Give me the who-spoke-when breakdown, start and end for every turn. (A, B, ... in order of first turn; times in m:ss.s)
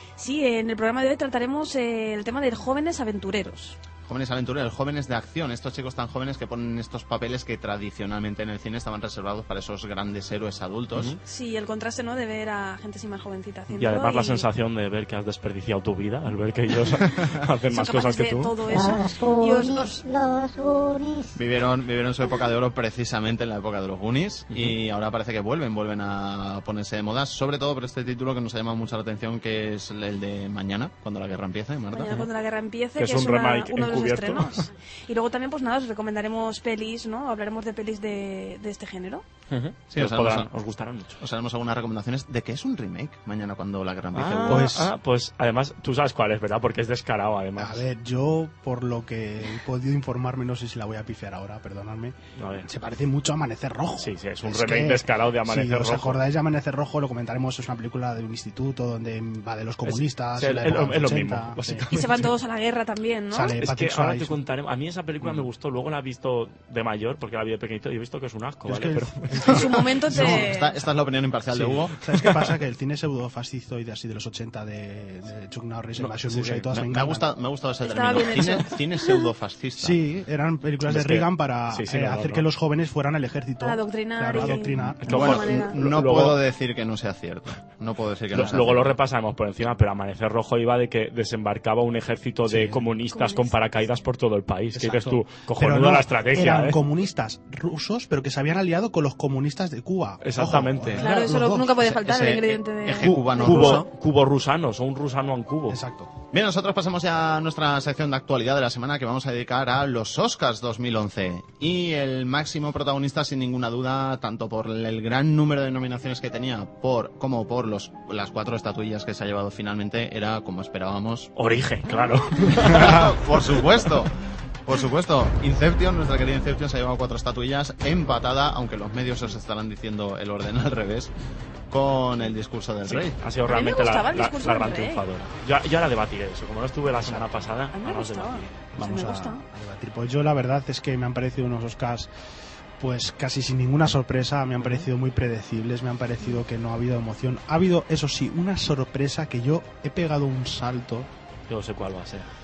0:00.2-0:03.8 A
0:04.1-0:11.1 B
0:10.9-0:11.2 C
0:11.2-0:14.5 A
0:13.8-0:18.5 C
0:17.7-0:20.0 A
0:18.7-0:21.4 D
0:21.4-0:32.3 B
0:24.5-0:24.8 C
0:31.9-0:39.2 A
0:33.0-0:34.7 C
0:39.5-0:41.2 C
0:39.9-0:40.5 B
0:41.2-0:44.7 B
0:44.1-0:47.8 C
0:44.4-0:44.9 E
0:47.6-1:01.9 E
0:52.4-0:52.7 C
0:54.0-0:56.2 C
0:59.8-1:02.3 C
1:01.9-1:03.6 A
1:03.3-1:04.4 E
1:03.6-1:09.6 C
1:08.6-1:10.5 E
1:09.4-1:10.7 A
1:10.1-1:12.0 B
1:11.5-1:17.3 E
1:16.0-1:16.7 C
1:16.7-1:20.0 B
1:17.8-1:19.3 A
1:19.8-1:25.5 E
1:20.8-1:22.5 C
1:23.6-1:25.8 A
1:24.4-1:26.4 C
1:25.0-1:28.9 B
1:28.3-1:36.8 C
1:28.4-1:28.7 E
1:32.5-1:32.9 E
1:33.1-1:33.7 A
1:34.7-1:41.9 E
1:40.2-1:41.1 C
1:41.0-1:43.9 A
1:41.8-1:43.8 B
1:43.0-1:45.8 C
1:45.7-1:46.1 E
1:46.3-2:01.3 B
2:01.4-2:03.1 C
2:02.5-2:04.1 B
2:04.6-2:11.1 B
2:11.7-2:13.2 B
2:12.9-2:18.5 C
2:13.5-2:15.0 A
2:17.0-2:17.5 E
2:17.7-2:19.4 A
2:18.8-2:22.1 E
2:22.8-2:31.1 E
2:24.6-2:24.9 C
2:31.5-2:32.3 C